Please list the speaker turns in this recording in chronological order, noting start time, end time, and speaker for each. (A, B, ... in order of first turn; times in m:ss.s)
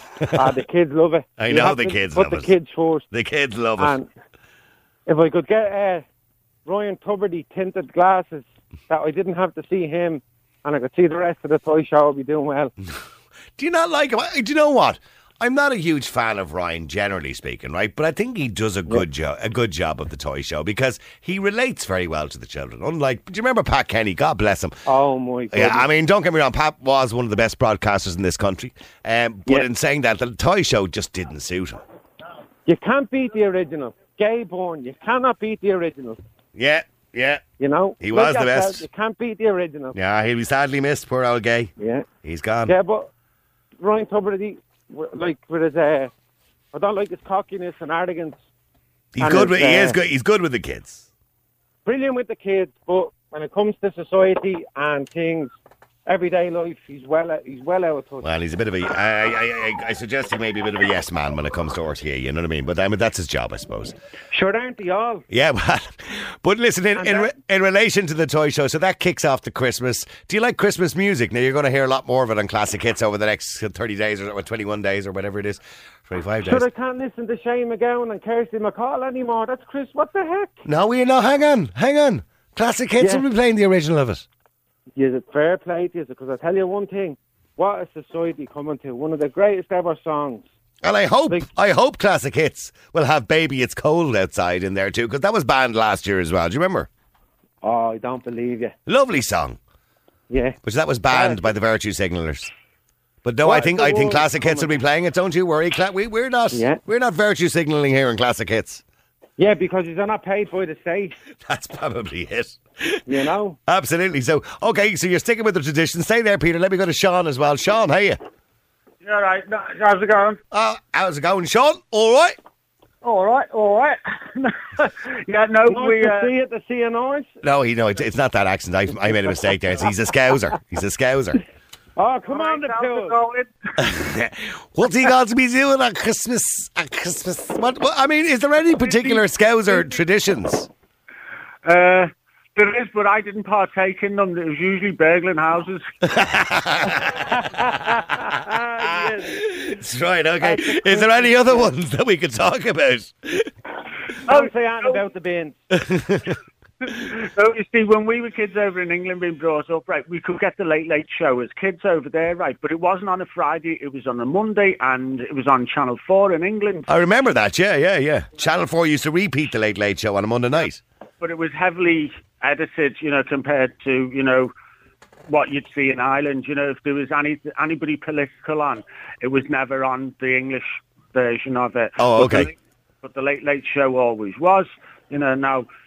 0:00.2-0:00.5 A
0:00.3-0:03.0 B
0:01.4-0:02.5 A
0:03.1-0:03.9 A
0:03.8-0:04.1 B
0:05.1-0:06.0 B
0:06.6-0:12.7 B
0:13.6-0:24.8 A
0:24.9-0:25.8 B
0:25.5-0:31.8 A
0:32.7-0:36.2 B
0:36.5-0:37.4 A
0:37.6-0:40.0 B
0:38.0-0:38.8 A
0:39.9-0:42.7 A
0:41.8-0:42.0 B
0:42.7-0:43.1 B
0:43.8-0:46.1 B
0:46.7-0:48.4 B
0:49.1-0:51.1 A
0:49.2-0:50.0 B
0:51.8-0:55.5 B
0:56.0-0:58.3 B
0:58.2-1:04.0 A
1:04.3-1:05.2 B
1:05.3-1:16.6 A
1:07.0-1:07.3 B
1:16.4-1:20.5 B
1:20.6-1:24.3 A
1:23.0-1:23.2 B
1:25.0-1:30.4 B
1:30.8-1:36.9 A
1:37.6-1:38.7 B
1:38.9-1:39.6 A
1:40.3-1:40.6 B
1:40.6-1:42.5 A
1:41.1-1:41.5 B
1:43.2-1:48.8 A
1:43.4-1:44.7 B
1:46.5-1:46.8 B
1:49.4-1:51.1 B
1:51.4-1:58.2 A
1:53.1-1:53.6 B
1:59.0-2:00.4 C
2:00.5-2:02.4 A
2:03.0-2:06.3 C
2:05.7-2:07.3 B
2:07.4-2:11.4 A
2:12.0-2:13.2 B
2:12.3-2:13.5 C
2:13.8-2:20.7 A
2:21.6-2:25.8 C
2:26.0-2:27.7 A
2:27.4-2:29.4 B
2:29.0-2:33.5 A
2:30.4-2:31.7 B
2:34.3-2:35.0 C
2:34.3-2:35.6 B
2:35.8-2:36.3 A
2:36.8-2:46.9 C
2:46.9-2:50.8 A
2:51.2-2:54.5 C
2:55.3-3:05.7 C
3:02.0-3:02.5 A